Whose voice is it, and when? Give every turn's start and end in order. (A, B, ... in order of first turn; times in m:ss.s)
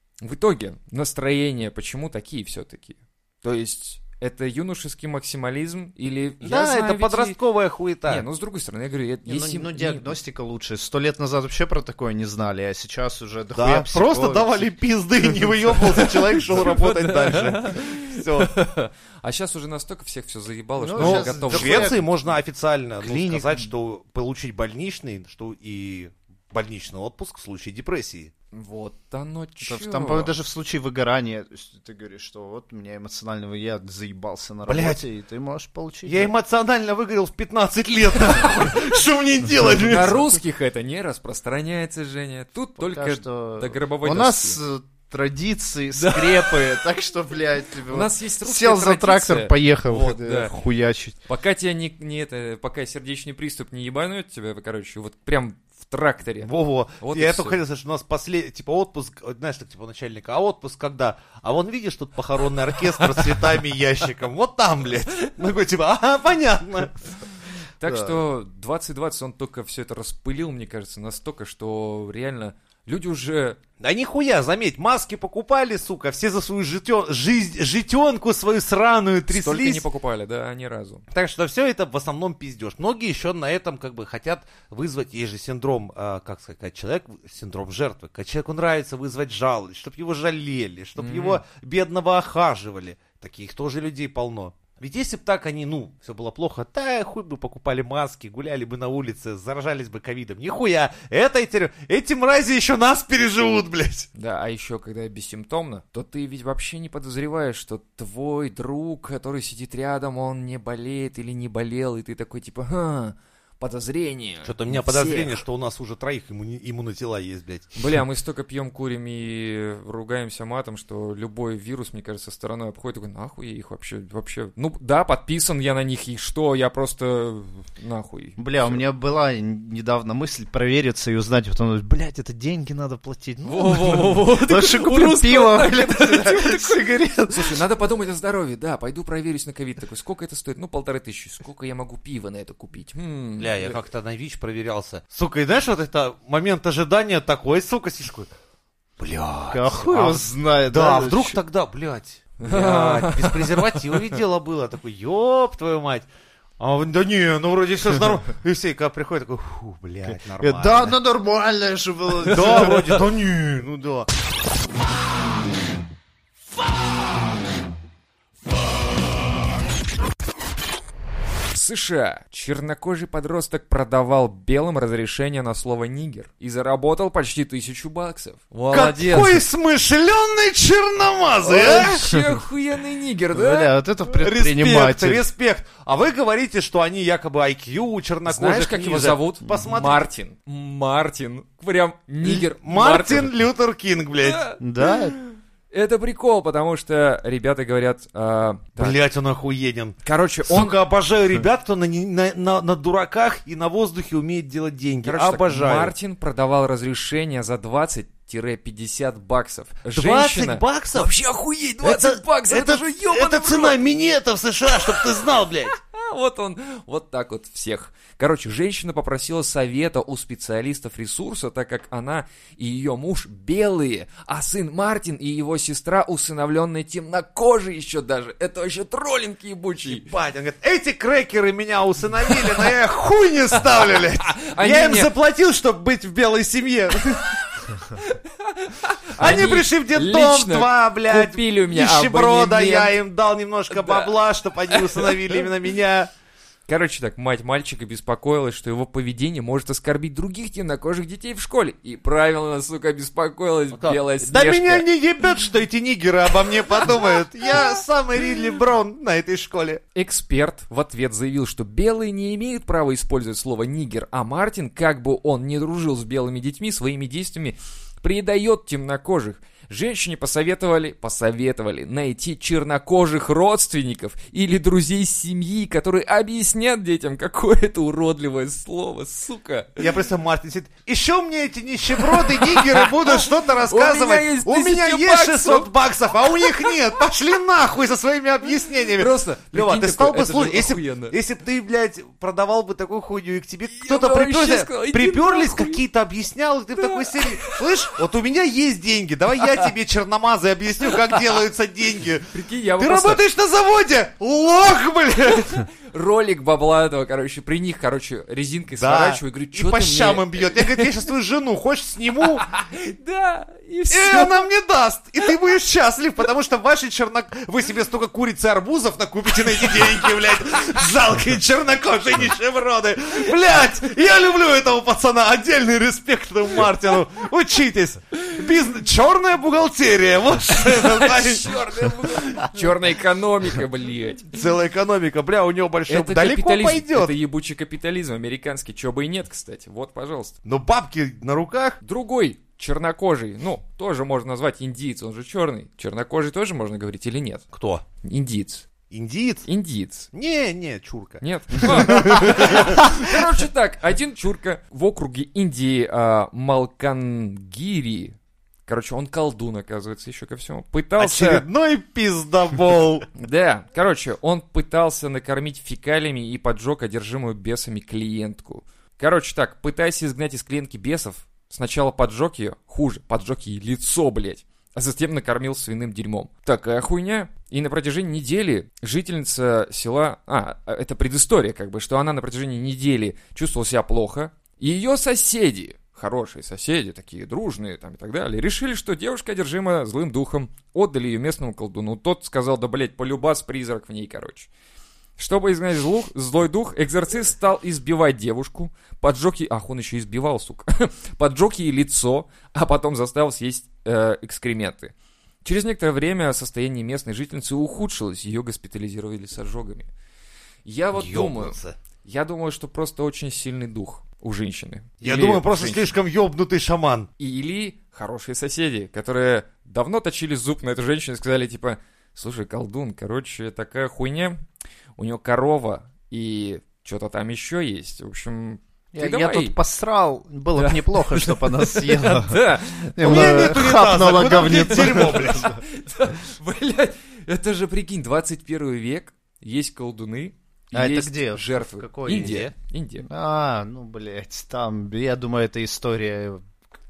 0:00.2-0:07.4 A
0:06.4-0:08.2 B
0:08.0-0:10.1 A
0:09.2-0:14.7 C
0:13.5-0:18.5 B
0:16.4-0:22.0 A
0:20.8-0:22.1 C
0:21.0-0:28.3 B
0:23.0-0:23.6 C
0:28.5-0:30.3 A
0:29.6-0:36.3 C
0:34.6-0:35.0 B
0:36.0-0:40.2 B
0:39.8-0:44.6 A
0:42.8-0:51.2 C
0:46.0-0:46.8 A
0:47.9-0:50.5 A
0:51.2-0:57.6 A
0:56.4-1:07.0 B
1:03.0-1:03.3 A
1:07.8-1:13.6 A
1:07.9-1:08.2 C
1:13.8-1:19.8 B
1:19.3-1:21.0 A
1:21.1-1:44.1 B
1:31.0-1:31.4 A
1:44.2-1:55.4 A
1:54.4-1:57.7 B
1:57.8-2:08.8 A
2:08.4-2:17.6 C
2:13.4-2:23.8 A
2:23.4-2:28.3 B
2:29.0-2:36.1 B
2:29.5-2:31.4 C
2:32.4-2:34.1 A
2:36.6-2:41.0 B
2:40.4-2:42.9 C
2:42.2-2:44.1 B
2:51.5-2:59.4 A
2:58.7-3:02.1 B
3:01.4-3:03.7 A
3:01.7-3:02.4 C
3:03.3-3:05.2 C
3:04.1-3:10.0 B
3:08.2-3:13.3 A
3:09.4-3:09.9 C
3:12.2-3:14.4 B
3:14.2-3:19.0 A
3:14.6-3:15.2 C
3:18.8-3:25.9 B
3:20.0-3:20.8 A
3:25.0-3:33.8 A
3:29.9-3:31.1 B
3:31.8-3:35.7 B
3:35.0-3:50.1 A
3:49.9-3:57.3 B
3:52.3-3:52.7 A
3:53.8-3:55.1 A
3:57.2-4:02.9 A
3:59.2-4:06.1 B
4:03.7-4:04.1 A
4:04.7-4:05.4 A
4:06.7-4:14.9 A
4:13.7-4:19.8 B
4:19.9-4:39.8 A
4:39.8-5:05.6 B
4:42.0-4:46.8 A
4:49.0-4:51.2 A
4:53.7-4:55.8 A
4:56.8-4:57.6 A
5:02.3-5:03.2 A
5:05.4-5:10.9 A
5:08.8-5:12.4 B
5:12.4-5:14.4 A
5:13.9-5:32.5 B
5:30.5-5:34.4 A
5:34.3-5:37.1 B
5:35.9-5:40.3 A
5:40.4-5:41.8 B
5:41.8-5:47.4 A
5:47.5-5:47.8 B
5:48.0-5:48.7 A
5:48.9-5:49.5 B
5:49.4-5:50.1 A
5:50.1-5:53.2 B
5:51.2-6:01.4 A
6:01.0-6:03.1 B
6:03.2-6:34.5 A
6:35.2-6:44.9 A
6:45.4-6:49.9 A
6:50.6-6:55.9 A
6:50.9-6:51.8 B
6:55.0-6:57.1 B
6:57.2-7:04.4 A
7:05.0-7:09.5 A
7:08.9-7:15.6 C
7:10.6-7:13.6 A
7:13.0-7:15.6 B
7:15.2-7:23.0 A
7:20.7-7:22.4 C
7:22.1-7:22.5 B
7:23.0-7:26.4 C